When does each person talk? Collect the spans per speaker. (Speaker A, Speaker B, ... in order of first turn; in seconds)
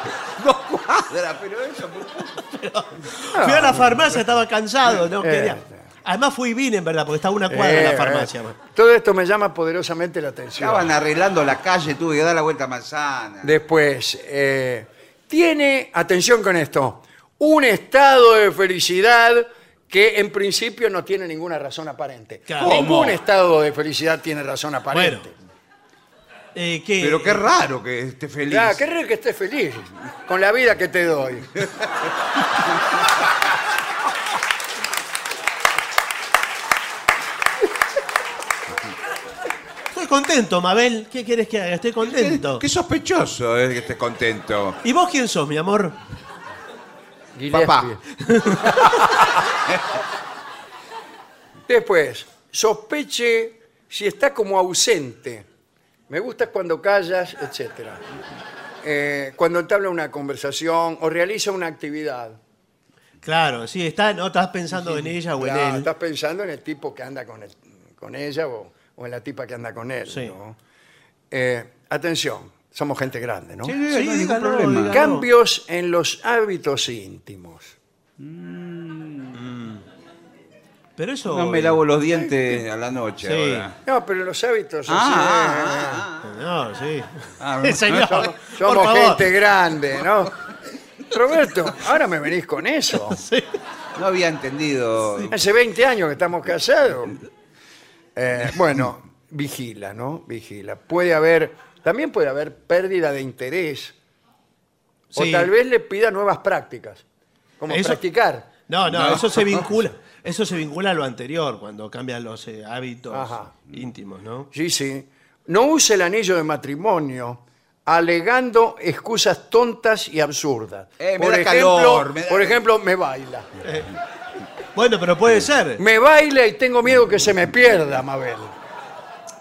Speaker A: 0.3-2.5, 10.6-13.5, 22.6-23.2, 27.0-28.8, 42.0-44.8, 47.5-47.9, 73.6-75.0, 78.2-79.4, 81.2-83.8, 84.9-86.3, 87.4-88.3, 94.0-95.3, 108.9-109.4, 121.0-122.6
Speaker B: 2.5-8.6, 22.5-22.8, 24.9-25.3, 26.5-27.4, 39.9-42.6, 44.8-46.0, 48.2-49.0, 63.2-65.9, 70.1-70.3, 73.9-75.3, 79.3-79.8, 81.0-81.8, 83.2-83.7, 86.2-89.2, 93.0-93.6, 105.1-105.5, 107.7-108.0, 108.7-114.5, 123.6-123.9, 124.7-125.8
Speaker C: 3.3-4.1, 5.2-5.8, 7.5-10.9, 13.4-25.3, 28.5-31.6, 47.3-48.0, 48.6-49.4, 51.7-55.5, 56.1-58.0, 58.8-62.4, 64.8-70.6, 71.3-73.8, 74.8-77.8, 82.1-82.5, 83.8-86.0, 88.1-90.3, 91.1-93.2, 95.3-97.2, 98.2-103.9, 105.1-107.0, 107.6-108.5, 113.1-113.5, 114.5-123.5, 125.8-128.5